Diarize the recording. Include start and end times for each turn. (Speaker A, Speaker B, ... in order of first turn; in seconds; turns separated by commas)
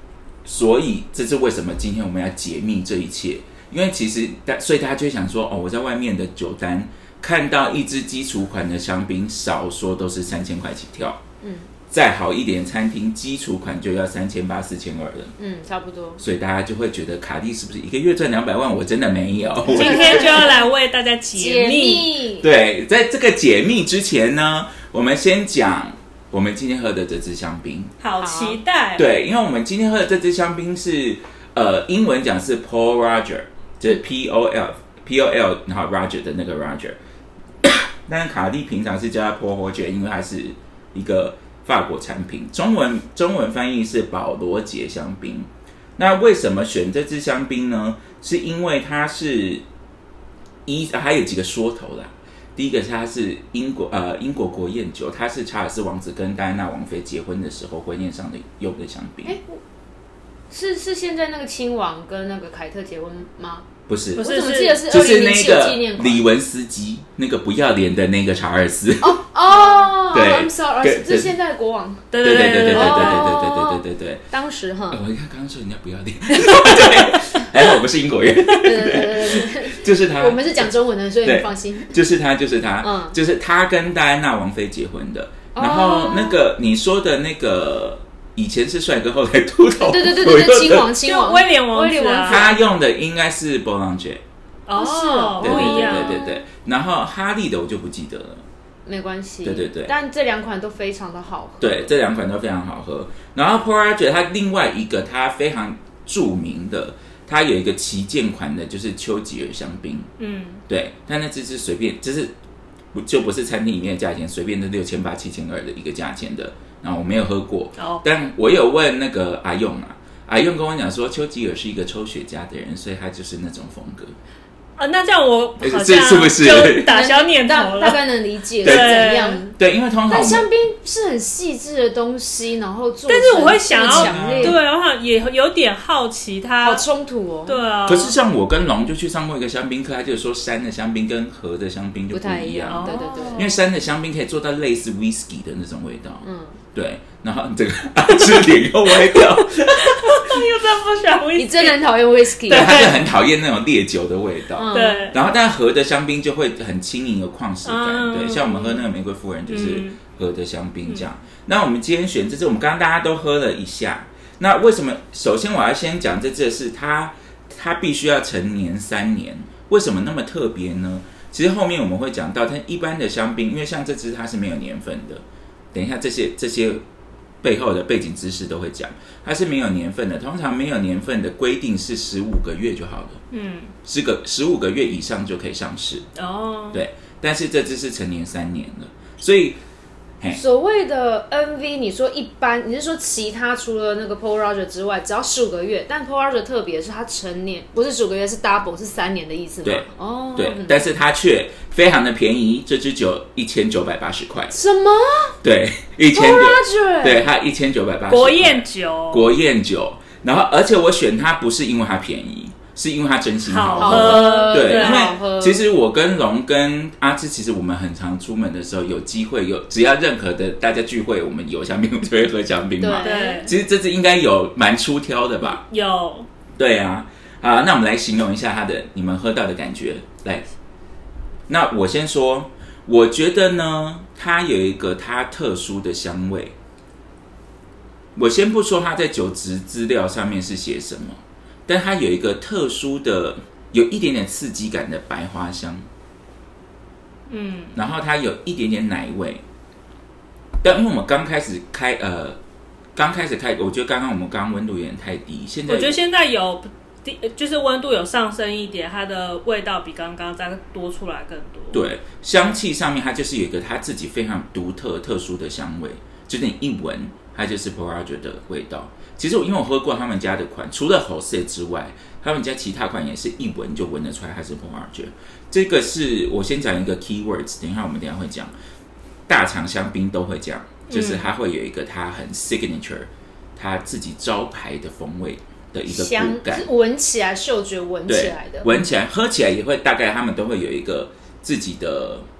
Speaker A: 0.4-11.2, Speaker B: 11.4-11.7, Speaker A: 11.9-15.3, Speaker B: 15.4-16.2, Speaker A: 16.2-20.4, Speaker B: 19.6-20.6, Speaker C: 19.7-22.1, Speaker B: 21.3-22.5, Speaker A: 22.4-27.9, Speaker C: 28.0-29.1, Speaker B: 28.2-28.6, Speaker A: 28.9-37.0, Speaker A: 37.6-49.6, Speaker A: 50.6-59.4, Speaker B: 59.2-59.6, Speaker B: 60.5-63.6, Speaker A: 63.9-64.3, Speaker C: 64.2-65.2, Speaker B: 64.2-66.2, Speaker A: 64.9-69.2, Speaker B: 69.0-75.0, Speaker C: 69.5-69.9, Speaker A: 70.1-71.3, Speaker C: 72.1-73.4, Speaker A: 72.2-74.2, Speaker A: 74.9-80.7, Speaker B: 76.5-77.5, Speaker B: 78.6-82.0, Speaker A: 81.2-91.0, Speaker B: 82.8-83.2, Speaker B: 85.5-86.4, Speaker B: 89.8-92.6, Speaker C: 91.0-92.5, Speaker A: 92.2-94.2, Speaker C: 94.7-96.2, Speaker B: 94.8-96.4, Speaker A: 95.4-98.4, Speaker B: 98.8-101.9, Speaker A: 99.4-99.9, Speaker A: 101.6-110.1, Speaker C: 110.2-110.6, Speaker A: 110.7-112.3, Speaker A: 112.9-124.1, Speaker C: 117.8-118.0, Speaker C: 124.8-128.0, Speaker A: 125.6-126.9, Speaker B: 126.6-129.6, Speaker A: 128.6-129.0, Speaker C: 128.6-129.4, Speaker A: 129.6-130.5, Speaker B: 130.1-134.6, Speaker C: 133.1-136.8, Speaker A: 133.8-134.6, Speaker B: 136.6-137.6, Speaker C: 137.4-138.2, Speaker A: 137.8-150.4, Speaker B: 142.1-143.5, Speaker C: 142.7-143.6, Speaker B: 146.2-146.6, Speaker C: 149.0-151.8, Speaker B: 151.3-152.9, Speaker C: 152.4-153.1, Speaker A: 152.5-176.8, Speaker B: 154.5-155.1, Speaker C: 154.7-155.2, Speaker C: 157.6-158.8, Speaker C: 159.5-160.0, Speaker A: 177.4-183.2, Speaker C: 183.3-183.7, Speaker A: 183.8-186.1, Speaker C: 186.2-186.8, Speaker A: 186.7-189.6, Speaker B: 190.3-200.8, Speaker A: 199.6-204.5, Speaker B: 204.5-205.3, Speaker A: 205.4-225.6, Speaker B: 206.1-207.2, Speaker C: 208.1-209.3, Speaker C: 213.4-215.2, Speaker B: 213.8-215.7, Speaker B: 222.8-223.5, Speaker C: 223.0-223.5, Speaker C: 225.4-226.3, Speaker A: 226.6-230.4, Speaker A: 231.5-236.5, Speaker A: 238.2-245.8, Speaker C: 247.3-247.8, Speaker A: 247.7-249.4, Speaker A: 250.6-252.4, Speaker A: 252.9-256.0, Speaker C: 255.7-261.8, Speaker A: 261.7-278.5, Speaker A: 279.3-286.7, Speaker C: 280.9-281.3, Speaker B: 285.9-288.7, Speaker A: 288.1-292.2